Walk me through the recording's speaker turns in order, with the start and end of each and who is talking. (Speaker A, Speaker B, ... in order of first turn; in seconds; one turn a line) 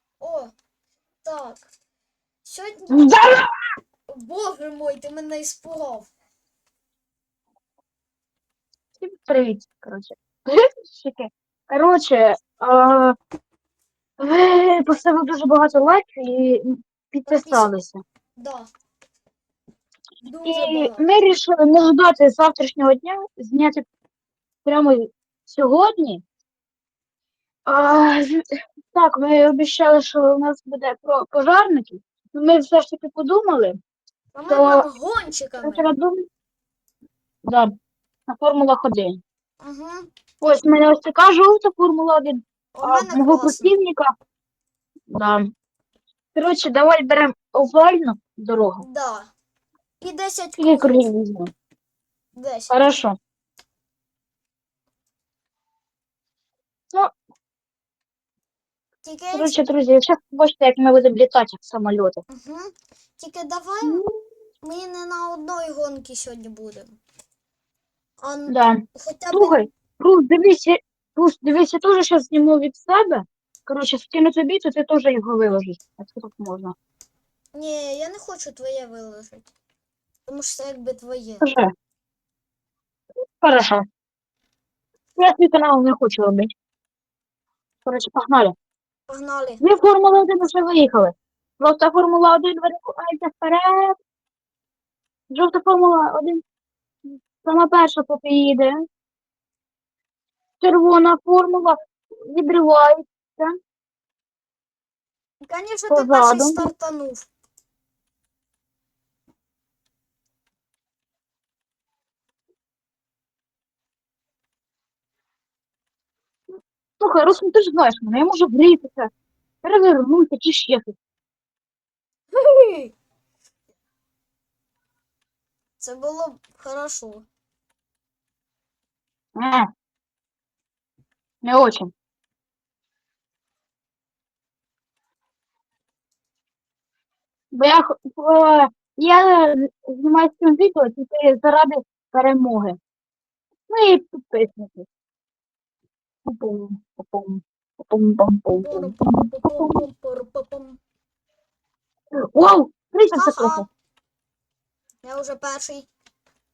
Speaker A: 0.2-0.5
Speaker A: 1.2-1.7
Speaker A: 2.4-3.1
Speaker B: 2.9-3.5
Speaker A: 4.1-6.1
Speaker B: 9.0-13.1
Speaker B: 14.2-18.0
Speaker A: 17.3-17.8
Speaker A: 18.4-18.7
Speaker A: 20.2-21.1
Speaker B: 20.4-23.8
Speaker B: 24.6-26.2
Speaker B: 27.6-33.8
Speaker A: 34.3-35.9
Speaker B: 34.5-34.8
Speaker B: 35.6-36.2
Speaker B: 37.4-37.7
Speaker B: 38.3-39.2
Speaker A: 39.6-40.1
Speaker B: 40.4-44.1
Speaker A: 42.7-43.8
Speaker B: 45.1-45.5
Speaker B: 46.3-48.8
Speaker A: 48.8-49.3
Speaker A: 50.0-51.1
Speaker B: 50.6-51.5
Speaker A: 52.3-52.7
Speaker B: 52.7-53.2
Speaker A: 59.0-59.6
Speaker B: 59.3-62.2
Speaker A: 62.3-64.0
Speaker A: 64.6-67.0
Speaker A: 68.2-69.6
Speaker B: 68.5-76.7
Speaker A: 77.5-79.5
Speaker A: 80.2-81.5
Speaker B: 81.4-81.7
Speaker B: 83.4-83.8
Speaker B: 85.2-86.5
Speaker B: 87.8-88.5
Speaker A: 89.1-89.6
Speaker B: 89.6-94.0
Speaker B: 95.3-96.4
Speaker B: 97.4-98.8
Speaker B: 100.6-103.6
Speaker A: 105.4-107.3
Speaker B: 105.9-106.7
Speaker B: 117.0-119.1
Speaker B: 119.6-121.0
Speaker A: 122.3-122.9
Speaker A: 125.8-127.2
Speaker B: 129.3-129.7
Speaker B: 131.4-131.9
Speaker B: 137.5-142.8
Speaker B: 143.7-144.9
Speaker B: 146.2-149.8
Speaker A: 148.6-150.8
Speaker B: 152.1-153.7
Speaker A: 153.1-153.7
Speaker A: 155.0-155.9